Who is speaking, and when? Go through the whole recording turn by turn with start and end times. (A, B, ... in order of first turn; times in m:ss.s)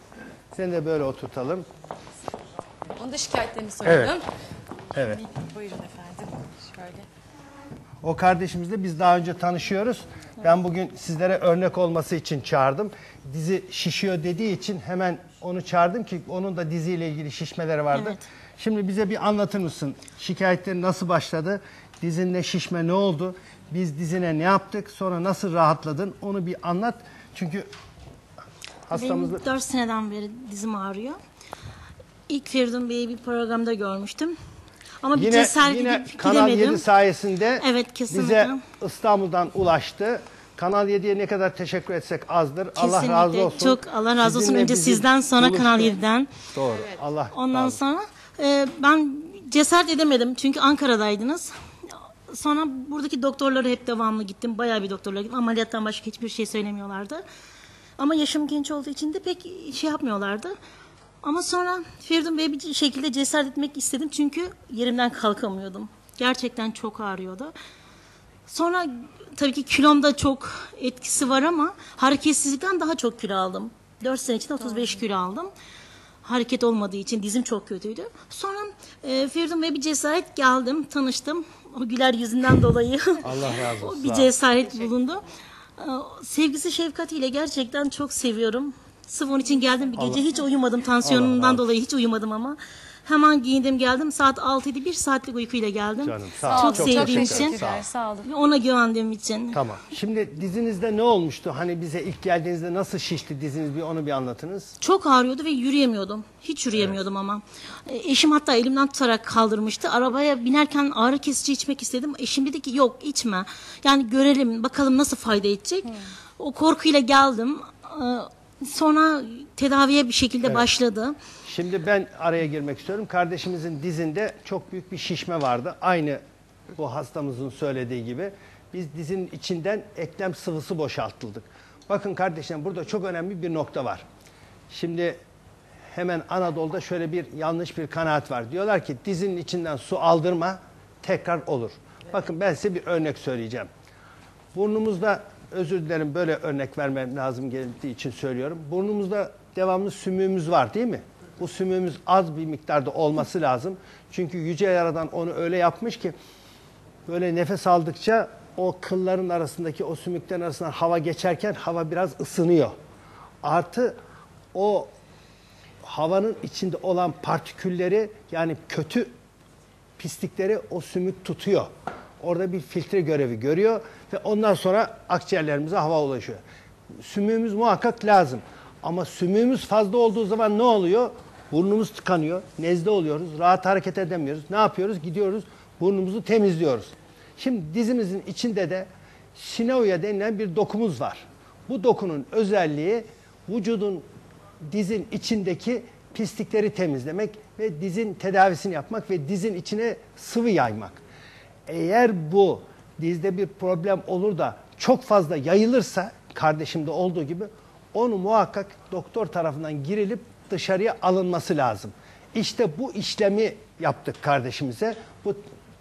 0:00.5-0:01.6 A
0:03.0-0:04.2 B
0:03.8-0:04.2 A
0:04.9-0:05.2 A
0:05.1-0:07.1 B
0:08.0-0:27.7 A
0:17.9-0:18.2 C
0:28.9-0:29.4 A
0:28.9-0:31.2 C
0:32.3-0:34.3 C
0:35.0-0:36.8 C
0:35.1-0:46.0 A
0:37.6-0:38.6 C
0:42.8-0:46.3 C
0:46.5-0:47.8 A
0:47.3-0:57.2 C
0:58.0-1:00.5 C
1:01.2-1:07.5 C
1:08.5-1:15.5 C
1:16.2-1:25.2 C
1:23.2-1:24.3 A
1:25.8-1:37.6 C
1:30.0-1:30.2 A
1:31.0-1:31.6 A
1:36.0-1:37.9 A
1:36.4-1:38.3 B
1:38.2-1:39.6 C
1:39.5-1:44.7 A
1:44.8-2:01.1 C
1:46.8-1:47.0 A
2:00.4-2:00.7 A
2:01.4-2:06.2 A
2:06.8-2:14.0 A
2:14.7-2:15.2 A
2:15.9-2:23.7 A
2:24.5-2:36.1 A
2:37.1-2:42.7 A
2:43.4-2:44.0 A
2:44.5-2:44.9 A
2:45.8-2:49.1 A
2:50.0-2:56.4 A
2:57.0-3:14.1 A
3:14.7-3:21.0 A
3:21.7-3:35.4 A